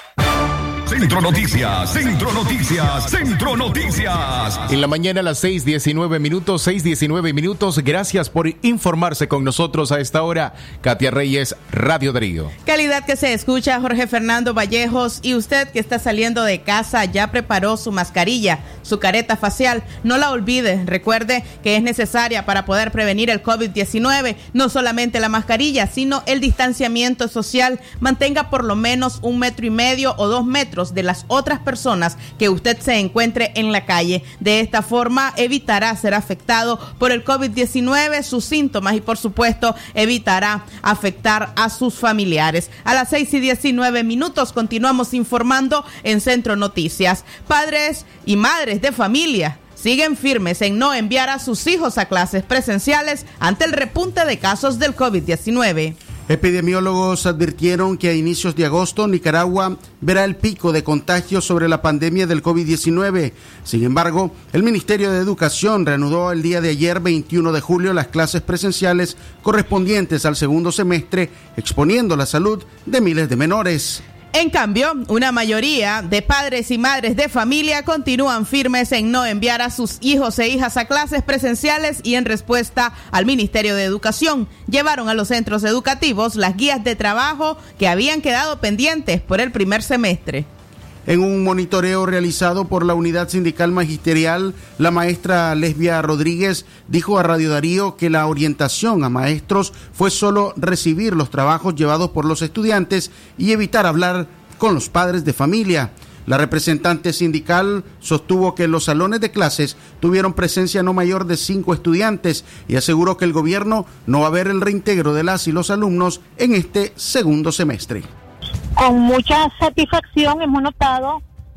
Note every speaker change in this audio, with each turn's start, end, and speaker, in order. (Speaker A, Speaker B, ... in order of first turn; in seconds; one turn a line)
Speaker A: 0.9-4.6
Speaker B: 4.7-12.5
Speaker C: 12.7-56.0
Speaker D: 56.3-74.0
Speaker C: 74.3-90.5
Speaker D: 91.1-118.1
Speaker E: 118.8-121.2